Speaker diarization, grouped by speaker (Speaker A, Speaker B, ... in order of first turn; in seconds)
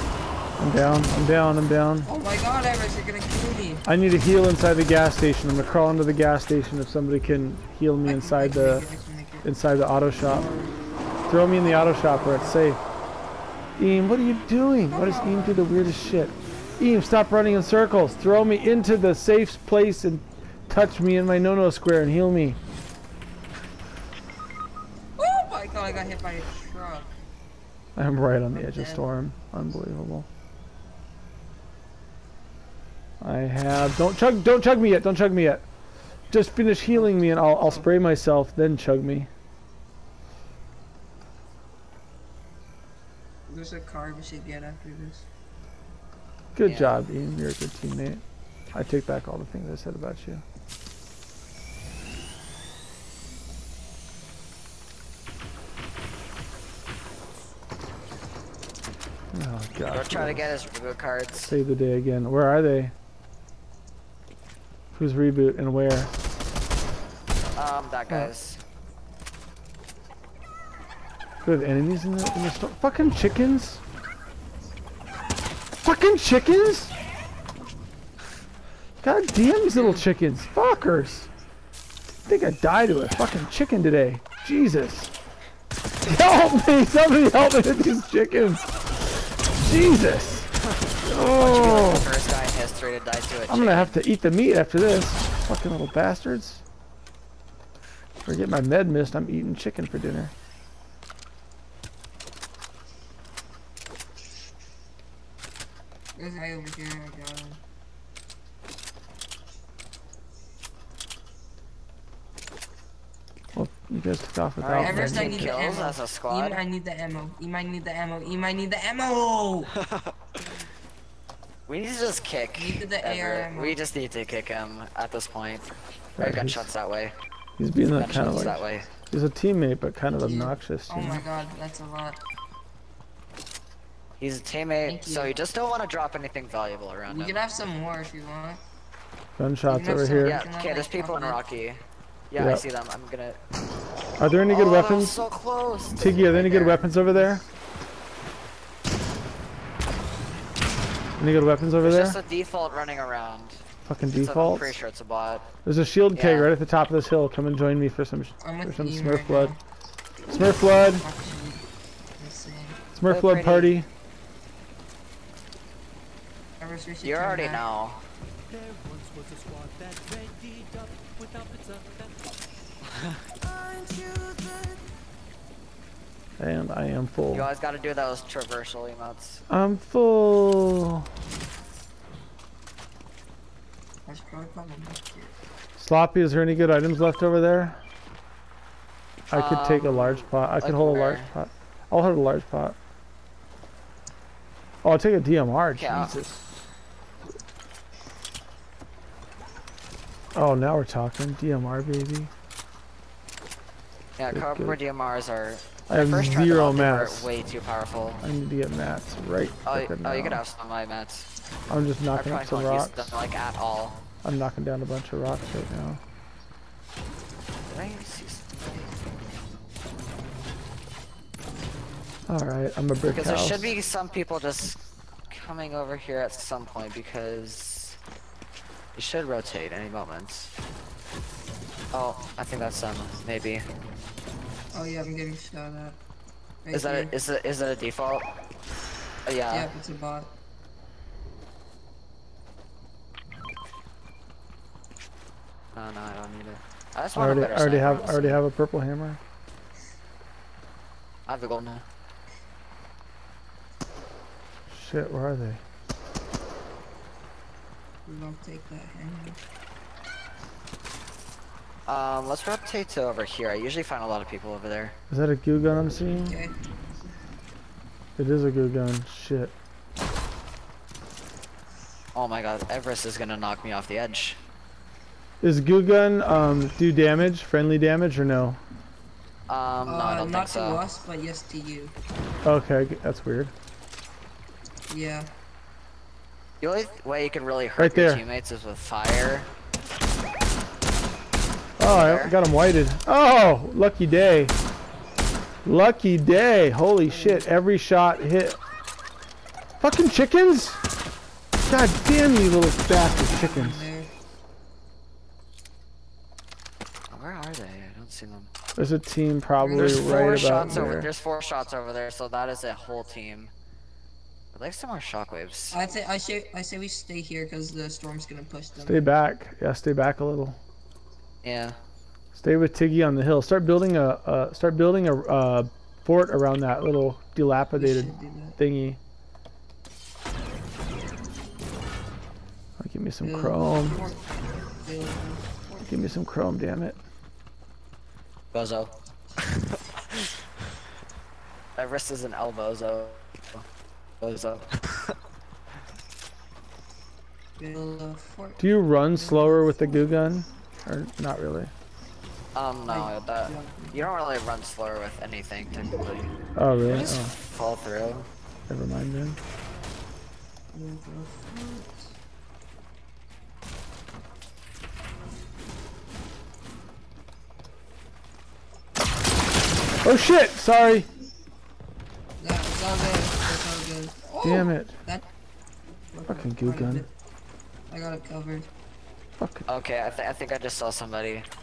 Speaker A: 0.6-2.1, 3.9-8.8, 9.4-10.5, 11.3-12.8, 13.8-22.6, 28.0-30.3, 33.2-35.6, 36.3-39.3, 46.5-48.2, 48.7-50.4, 59.3-60.6, 61.5-62.9, 64.9-66.1, 71.4-73.8, 75.8-76.9, 79.0-81.3, 82.3-85.1, 86.1-90.5, 91.1-92.1, 93.5-96.6, 98.2-100.3, 113.5-115.5, 126.2-126.7, 127.6-131.3, 139.4-140.4, 142.4-142.6, 144.2-145.2, 145.9-147.4, 151.2-152.2, 153.9-154.8, 155.6-159.5, 160.3-161.1, 162.9-163.9, 176.4-177.5, 179.5-181.1, 185.8-187.8, 189.3-192.8, 194.8-196.4, 200.3-202.3, 204.3-204.8, 205.9-207.3, 208.2-210.4, 211.7-213.2, 214.2-216.0, 222.3-223.7, 247.1-249.2, 254.7-255.6, 265.1-266.4, 268.2-269.5, 275.4-278.6, 282.4-283.5, 287.8-288.2, 291.8-294.6, 295.6-298.6, 299.8-300.8, 301.6-303.9, 308.8-311.1, 318.8-320.6, 322.4-329.0, 332.8-334.0, 335.9-337.0, 348.6-351.7, 356.6-357.4, 358.7-359.4, 370.0-371.1, 374.4-374.9, 376.3-377.1, 379.4-379.6
Speaker B: 2.0-3.9, 8.0-9.5, 10.2-10.8, 11.8-12.6, 14.9-15.6, 25.2-27.1, 28.5-29.0, 36.9-37.9, 43.5-45.3, 79.7-80.0, 106.2-107.6, 114.8-119.7, 122.6-123.8, 130.1-132.2, 134.8-135.3, 137.1-138.6, 139.7-141.4, 147.0-147.3, 158.4-159.6, 160.7-161.6, 162.2-162.8, 166.6-167.6, 184.1-185.3, 234.7-236.0, 236.6-237.1, 239.5-240.3, 258.1-259.4, 266.2-266.5, 279.9-281.9, 284.9-285.3, 297.1-297.5, 303.0-304.1, 309.6-310.9, 315.7-319.1, 327.8-328.6, 333.2-335.9, 347.6-349.8, 352.9-354.1, 360.7-362.1, 372.4-375.2, 376.1-377.1, 377.9-378.7
Speaker C: 46.6-47.0, 59.9-61.5, 67.6-68.6, 91.4-94.0, 114.6-116.6, 119.7-120.2, 121.7-127.1, 128.0-128.9, 134.2-137.4, 140.2-141.8, 142.3-143.4, 144.5-146.9, 151.8-153.6, 154.2-155.5, 156.1-156.5, 163.1-163.8, 167.0-168.0, 172.9-173.2, 177.3-179.4, 189.3-191.3, 195.7-196.2, 204.2-208.2, 209.6-211.3, 212.1-214.0, 217.7-218.7, 223.1-224.8, 225.3-228.0, 228.9-230.5, 231.9-233.6, 236.7-238.3, 239.3-239.7, 245.8-248.4, 251.3-251.8, 261.9-265.0, 272.1-274.4, 279.5-280.8, 286.6-289.5, 291.8-292.4, 307.1-308.5, 309.8-313.5, 314.5-315.8, 321.4-321.8, 338.5-340.4, 341.8-343.6, 344.2-345.1, 352.6-356.3, 356.9-358.3, 379.7-381.5
Speaker D: 168.5-172.4, 173.4-174.8